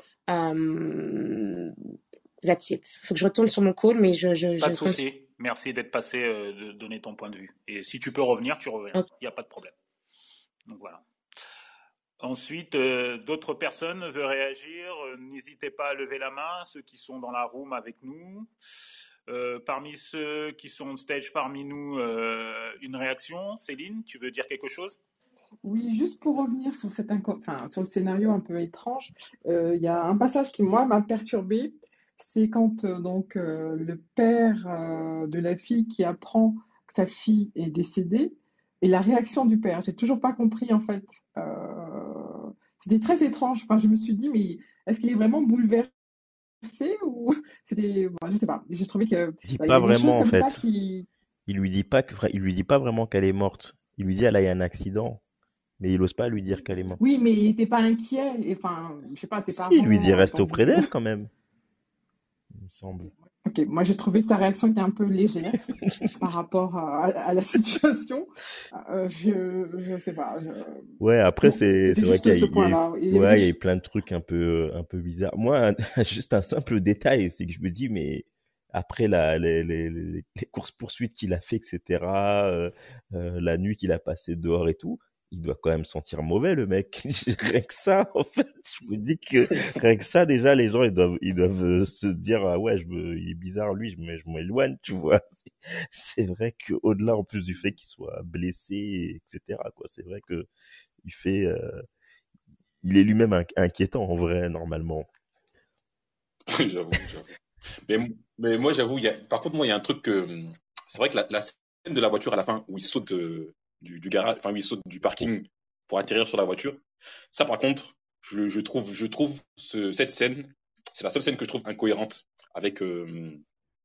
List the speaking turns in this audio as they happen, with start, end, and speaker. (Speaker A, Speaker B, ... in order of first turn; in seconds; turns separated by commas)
Speaker A: 0.3-1.8, Speaker A: 2.4-5.0, Speaker B: 4.6-9.7, Speaker B: 10.7-11.0, Speaker B: 12.2-18.5, Speaker B: 19.3-25.0, Speaker C: 25.6-45.9, Speaker C: 46.6-51.1, Speaker D: 49.5-50.6, Speaker D: 51.5-55.2, Speaker D: 55.8-57.0, Speaker C: 57.0-60.9, Speaker D: 59.6-61.3, Speaker D: 62.6-63.1, Speaker C: 63.5-65.6, Speaker D: 65.7-66.2, Speaker C: 66.2-70.9, Speaker D: 71.0-100.5, Speaker C: 71.4-73.5, Speaker D: 101.0-101.8, Speaker D: 102.8-105.1, Speaker E: 106.5-107.3, Speaker E: 107.9-123.4